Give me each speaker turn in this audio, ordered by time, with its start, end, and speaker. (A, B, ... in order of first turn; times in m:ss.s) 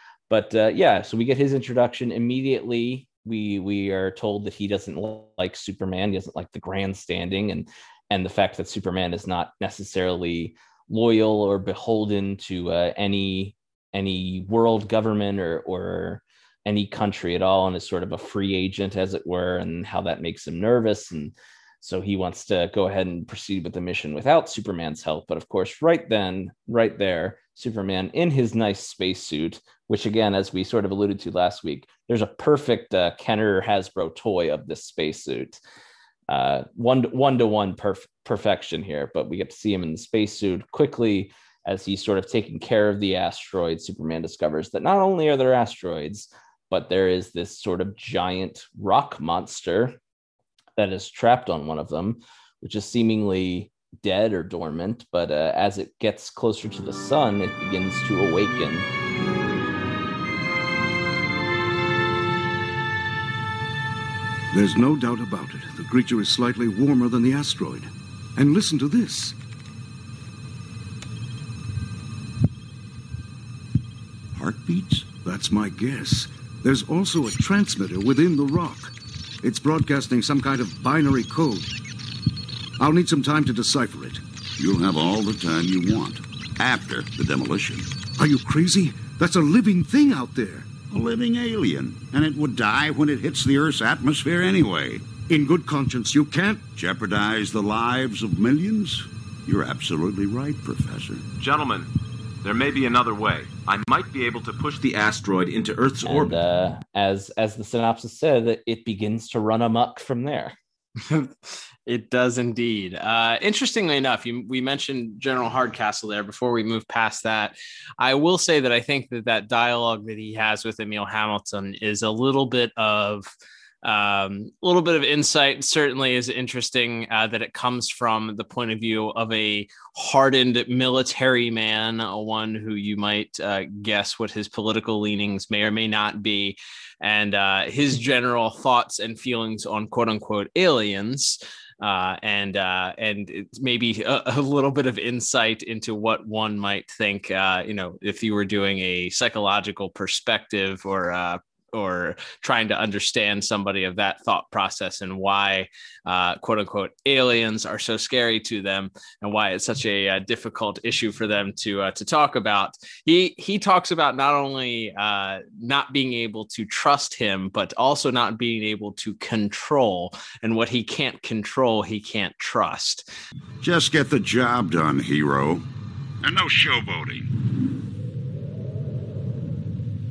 0:00.3-0:35.6 A
0:36.3-0:50.0 A
0:50.8-0:58.9 A
1:04.5-1:09.4 B
1:14.3-1:15.1 C
1:15.2-1:21.7 B
1:22.8-1:24.2 B
1:24.6-1:28.0 C
1:28.2-1:30.8 B
1:30.9-1:35.2 C
1:35.3-1:36.7 B
1:36.7-1:41.3 C
1:41.4-1:41.9 D
1:42.4-1:46.4 D
1:46.0-1:50.6 A
1:51.0-2:03.3 E
2:03.8-2:53.1 E
2:53.6-2:55.6 C
2:56.2-2:57.4 C